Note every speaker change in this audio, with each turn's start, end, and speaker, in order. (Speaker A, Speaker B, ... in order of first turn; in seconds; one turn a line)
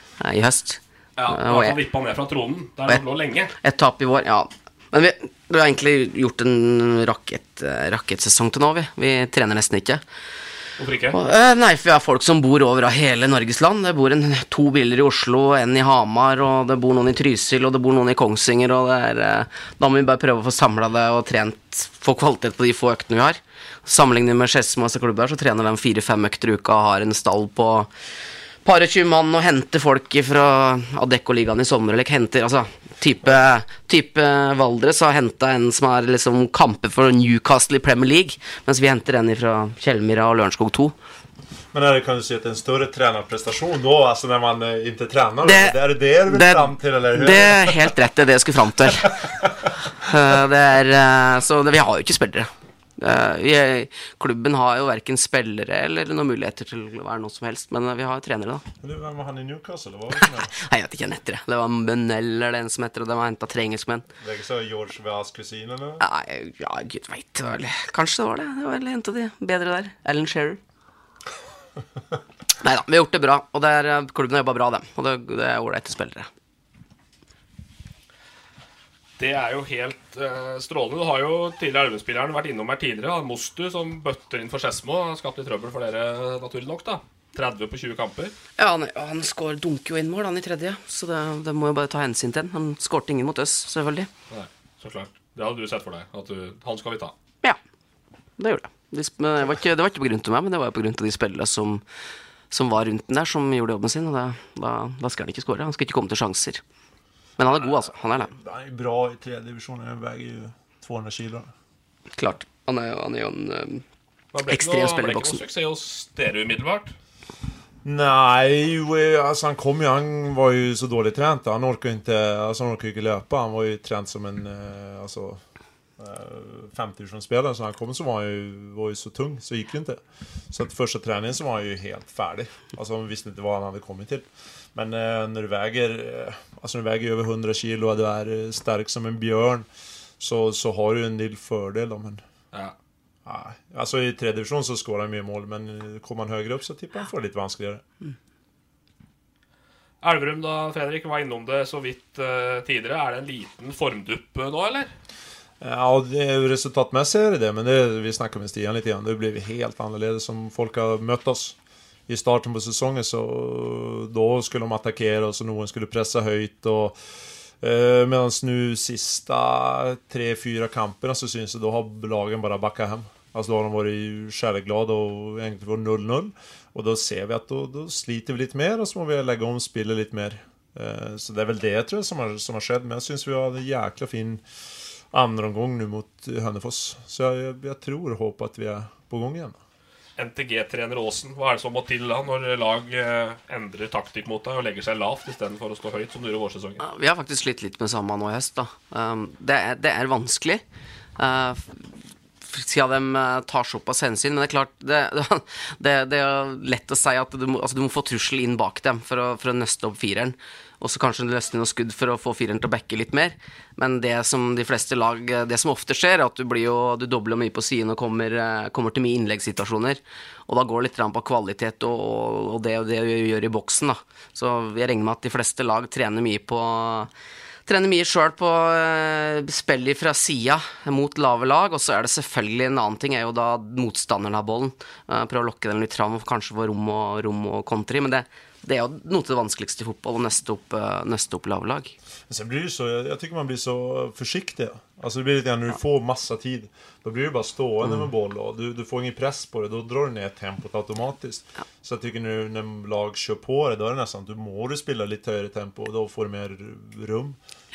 Speaker A: 0.2-1.8
Speaker B: 1.2-3.5
Speaker A: 3.6-10.0
Speaker B: 10.8-11.2
Speaker A: 11.1-27.9
Speaker A: 28.6-40.9
Speaker C: 41.7-47.9
Speaker A: 45.4-49.3
Speaker C: 49.2-49.6
Speaker A: 50.0-58.6
Speaker C: 58.8-60.5
Speaker A: 60.2-64.1
Speaker C: 64.2-66.0
Speaker A: 66.0-70.6
Speaker A: 72.6-76.3
Speaker B: 79.2-88.3
Speaker A: 88.6-94.1
Speaker B: 94.3-97.1
Speaker A: 98.4-101.8
Speaker A: 102.5-106.6
Speaker A: 107.4-108.3
Speaker C: 108.3-111.5
Speaker A: 112.2-113.8
Speaker B: 114.3-116.9
Speaker A: 114.5-115.4
Speaker C: 117.8-125.4
Speaker C: 126.0-139.7
Speaker C: 140.2-142.2
Speaker C: 143.2-147.8
Speaker B: 150.0-154.9
Speaker C: 155.6-161.6
Speaker C: 162.1-167.0
Speaker C: 167.6-184.4
Speaker C: 185.1-189.6
Speaker B: 190.2-196.8
Speaker A: 196.8-200.6
Speaker A: 201.2-201.8
Speaker A: 202.5-227.1
Speaker A: 227.7-241.9
Speaker C: 242.3-257.4